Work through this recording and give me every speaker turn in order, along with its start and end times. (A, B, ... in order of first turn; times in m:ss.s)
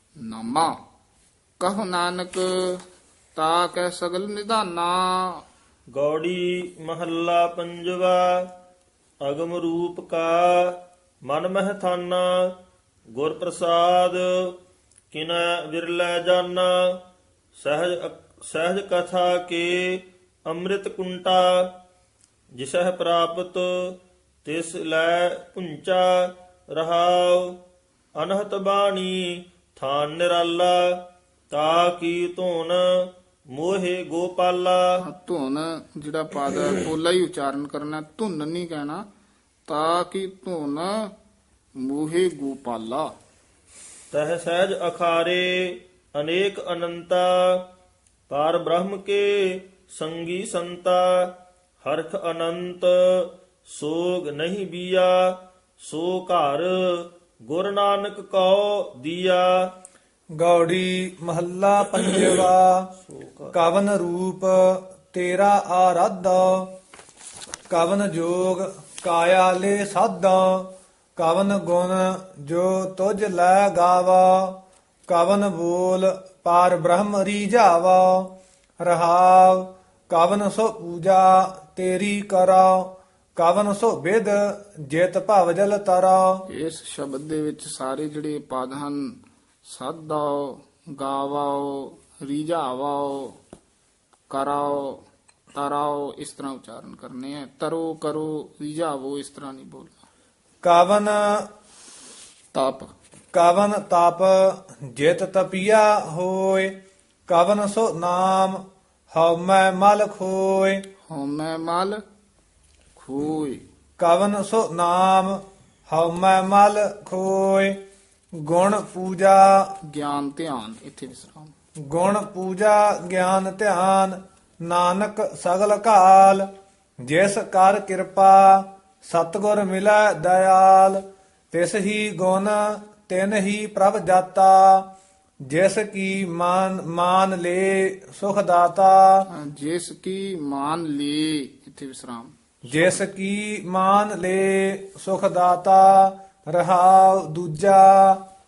0:00.2-0:00.7 A
0:01.6-0:02.8 A
0:03.3-0:05.4 A
0:05.9-0:08.5 B
0:09.2-0:12.5 B
0:13.1-0:14.6 B
0:15.1-0:17.0 B
0:17.6-0:21.7 B
0:22.5-0:27.6 B
0:28.2-0:34.9 B
0:35.0-0:39.0 A
0:39.7-0:41.1 A
0:41.8-0:43.1 A
0:44.1-0:47.6 B
0:48.3-0:59.7 B
1:00.4-1:02.9 C
1:03.1-1:03.5 B
1:03.5-1:06.7 C
1:07.7-1:26.4 C
1:26.5-1:29.0 A
1:29.6-1:33.4 A
1:34.3-1:35.0 A
1:35.5-1:39.9 A
1:40.6-1:41.4 C
1:42.5-1:42.9 A
1:43.3-1:46.8 C
1:47.3-1:48.6 C
1:49.1-1:50.8 C
1:51.1-1:52.0 A
1:52.9-1:53.6 A
1:54.0-1:57.8 C
1:58.4-1:59.7 C
1:59.9-2:01.5 A
2:01.9-2:06.5 C
2:07.0-2:14.9 C
2:15.4-2:19.2 C
2:19.3-2:22.9 A
2:22.7-2:28.2 C